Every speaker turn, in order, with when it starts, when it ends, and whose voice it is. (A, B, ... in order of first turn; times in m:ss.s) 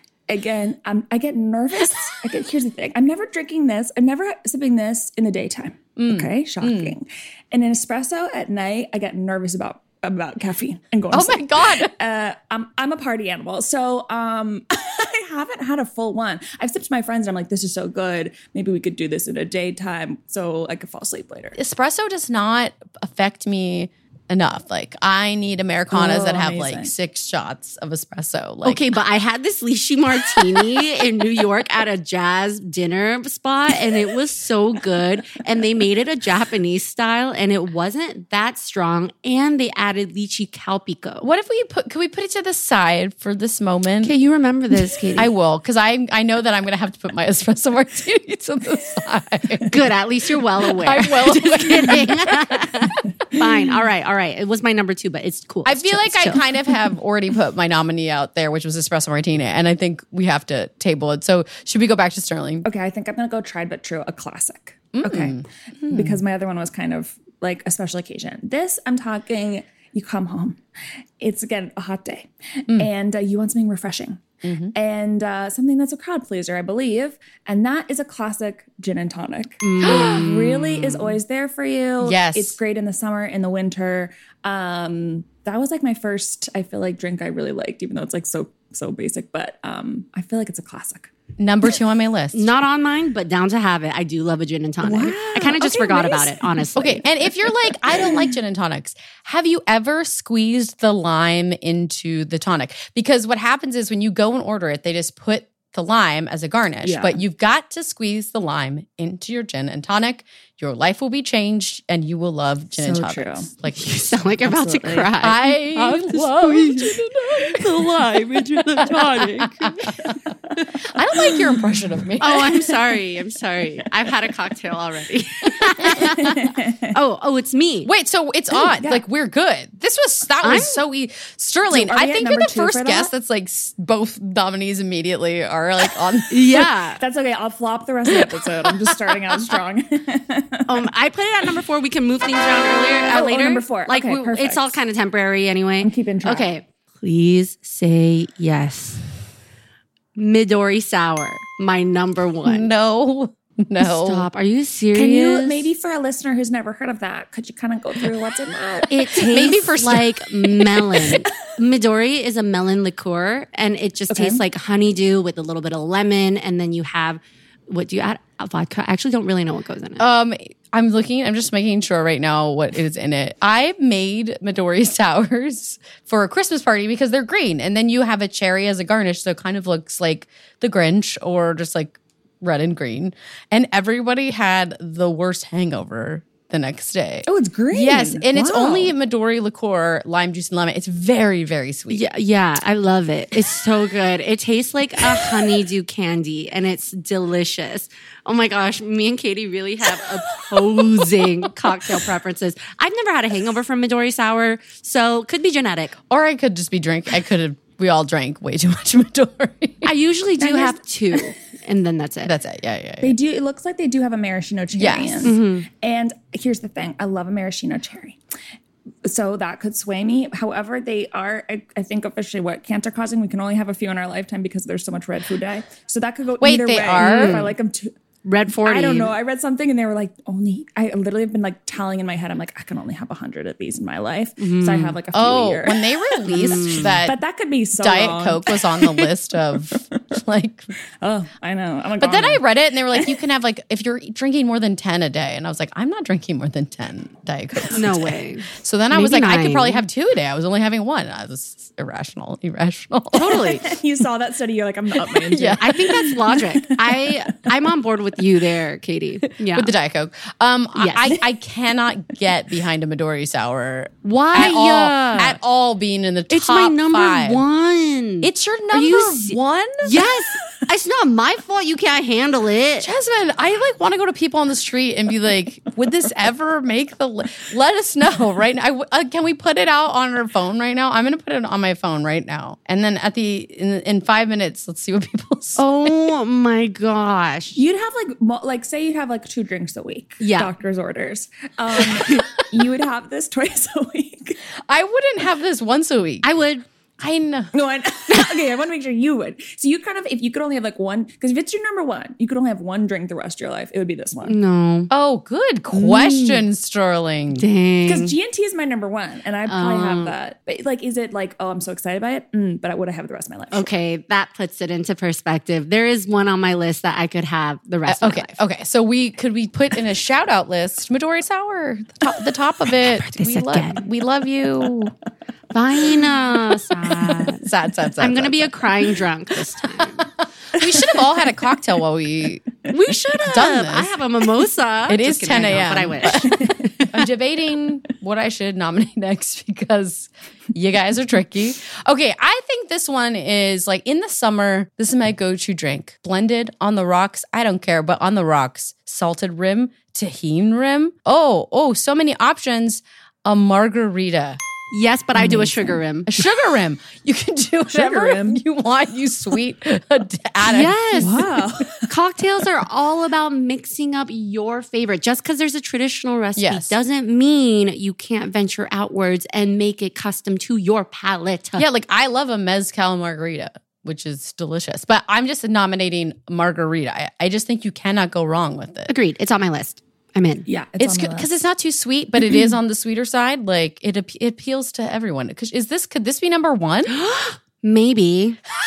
0:00.3-0:21.6 A
0:06.0-0:06.9 B
0:11.1-0:11.9 B
0:21.6-0:28.9 B
0:25.9-0:26.9 A
0:28.6-0:41.2 C
0:41.2-0:44.1 B
0:44.0-0:45.3 C
0:45.2-0:49.7 B
0:49.7-0:56.5 C
0:50.7-0:52.4 B
0:55.6-1:02.6 B
1:02.6-1:10.6 A
1:04.9-1:06.2 B
1:11.2-1:14.2 A
1:14.4-1:14.8 B
1:14.7-1:31.1 A
1:19.6-1:20.8 C
1:19.8-1:20.3 B
1:22.0-1:22.6 B
1:31.4-1:32.5 B
1:32.3-1:37.0 C
1:34.8-1:36.6 A
1:36.8-1:54.3 B
1:46.8-1:47.2 A
1:52.7-1:53.5 A
1:53.7-1:59.8 C
1:54.5-1:55.1 A
1:55.2-1:57.8 B
1:58.7-2:00.2 B
1:59.8-2:00.6 A
2:00.9-2:02.5 B
2:01.3-2:02.1 A
2:02.2-2:06.4 C
2:06.2-2:06.9 A
2:06.9-2:07.9 C
2:07.8-2:16.4 B
2:08.5-2:09.0 A
2:10.4-2:10.8 C
2:11.7-2:13.1 A
2:16.3-2:17.0 C
2:17.0-2:20.7 A
2:20.7-2:29.0 C
2:23.1-2:24.8 A
2:25.8-2:26.5 A
2:30.2-2:32.7 C
2:32.4-2:34.3 B
2:33.8-2:35.6 C
2:34.9-2:39.0 A
2:38.9-2:50.0 C
2:39.2-2:40.9 B
2:44.1-2:44.4 A
2:50.0-3:12.1 B
3:07.3-3:08.9 A
3:11.9-3:25.9 C
3:26.1-3:29.9 B
3:29.8-3:32.3 C
3:30.4-3:31.2 A
3:32.2-3:33.2 B
3:33.0-3:38.2 A
3:34.7-3:35.3 B
3:35.2-3:35.6 C
3:39.0-3:47.9 A
3:46.4-3:47.5 B
3:47.0-3:47.6 C
3:48.2-3:49.2 C
3:48.6-3:55.9 A
3:54.4-3:55.0 C
3:55.1-3:57.2 B
3:56.2-3:57.0 C
3:57.0-3:58.6 A
3:57.7-4:00.7 B
4:01.0-4:02.4 A
4:02.0-4:13.4 B
4:07.7-4:09.8 C
4:13.1-4:13.7 C
4:13.4-4:17.1 A
4:15.1-4:16.1 B
4:15.6-4:19.7 C
4:19.5-4:27.4 B
4:20.8-4:21.1 C
4:24.0-4:25.4 C
4:26.3-4:32.9 C
4:28.2-4:30.0 B
4:32.8-4:45.9 B
4:45.6-4:47.6 C
4:47.6-4:54.4 A
4:50.2-4:50.5 C
4:54.6-4:56.3 B
4:56.2-4:56.6 C
4:57.0-4:57.5 B
4:57.5-5:04.4 A
5:04.2-5:04.9 C
5:04.9-5:07.4 B
5:05.7-5:06.4 C
5:07.3-5:08.1 C
5:07.8-5:13.7 A
5:09.5-5:10.1 C
5:13.5-5:18.3 C
5:17.9-5:24.9 B
5:22.9-5:23.8 C
5:25.5-5:27.4 C
5:27.4-5:28.7 B
5:28.0-5:30.1 C
5:30.6-5:32.6 B
5:32.7-5:36.9 C
5:33.2-5:34.0 B
5:34.9-5:54.4 B
5:36.3-5:36.6 A
5:54.7-5:56.2 C
5:55.2-5:55.8 A
5:56.1-6:01.3 B
5:57.7-5:58.4 A
6:00.4-6:01.3 C
6:01.0-6:01.9 A
6:01.8-6:11.6 C
6:06.4-6:06.7 B
6:11.6-6:18.9 B
6:18.9-6:20.5 C
6:20.5-6:21.3 A
6:20.8-6:26.9 B
6:26.9-6:28.4 C